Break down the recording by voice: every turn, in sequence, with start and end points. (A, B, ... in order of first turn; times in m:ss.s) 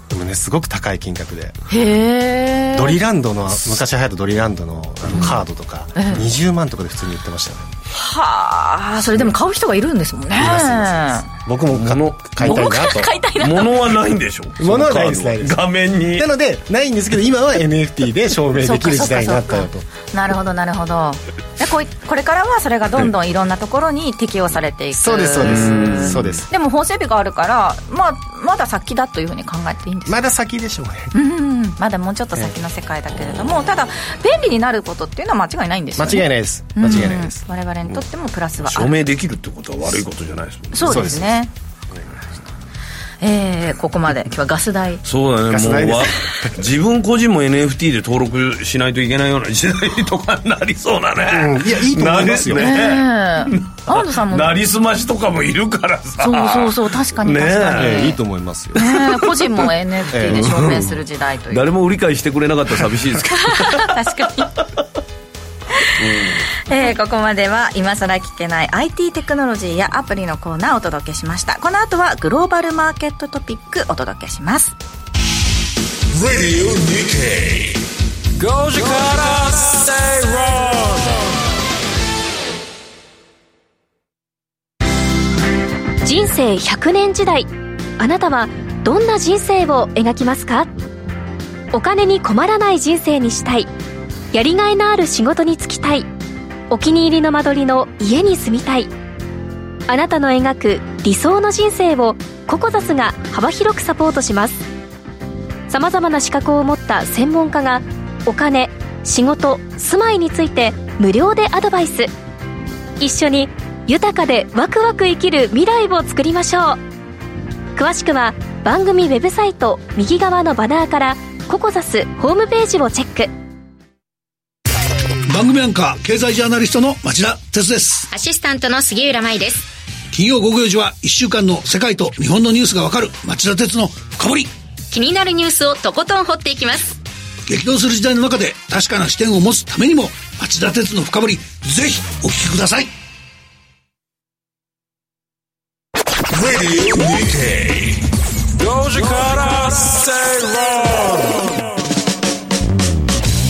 0:00.1-0:01.6 A
0:01.7-0:03.0 B
0:02.7-0:07.7 A
0:06.0-0:06.2 B
0:07.9-0:11.3 B
0:10.3-0:13.1 A
0:11.7-0:12.5 C
0:12.4-0:13.7 B
0:13.4-0:16.3 C
0:14.6-0:19.9 A
0:18.6-0:30.2 B
0:25.0-0:26.5 A
0:25.4-0:26.4 C
0:30.1-0:31.1 A
0:31.1-0:38.9 B
0:36.0-0:38.0 A
0:38.6-0:41.2 C
0:40.7-0:41.5 B
0:40.8-0:41.4 A
0:43.2-0:45.0 B
0:45.0-0:58.1 C
0:45.5-0:46.5 A
0:51.3-0:52.9 A
0:52.6-0:54.6 B
0:56.2-0:58.2 B
0:57.7-0:58.9 A
0:58.8-1:01.7 B
0:58.8-0:59.6 C
1:00.1-1:00.7 A
1:00.2-1:04.0 C
1:03.4-1:04.5 B
1:05.9-1:06.5 C
1:06.7-1:14.8 B
1:16.1-1:17.8 D
1:18.4-1:21.3 E
1:26.0-1:30.7 F
1:31.7-1:33.7 F
1:34.3-1:36.1 F
1:36.7-1:38.9 F
1:39.9-1:44.6 F
1:45.7-1:52.1 F
1:53.0-1:56.8 F
1:57.8-2:03.3 F
2:05.3-2:08.1 D
2:08.1-2:09.7 G
2:10.1-2:14.5 D
2:14.9-2:17.0 G
2:17.5-2:22.9 D
2:26.3-2:28.1 D
2:28.6-2:31.6 E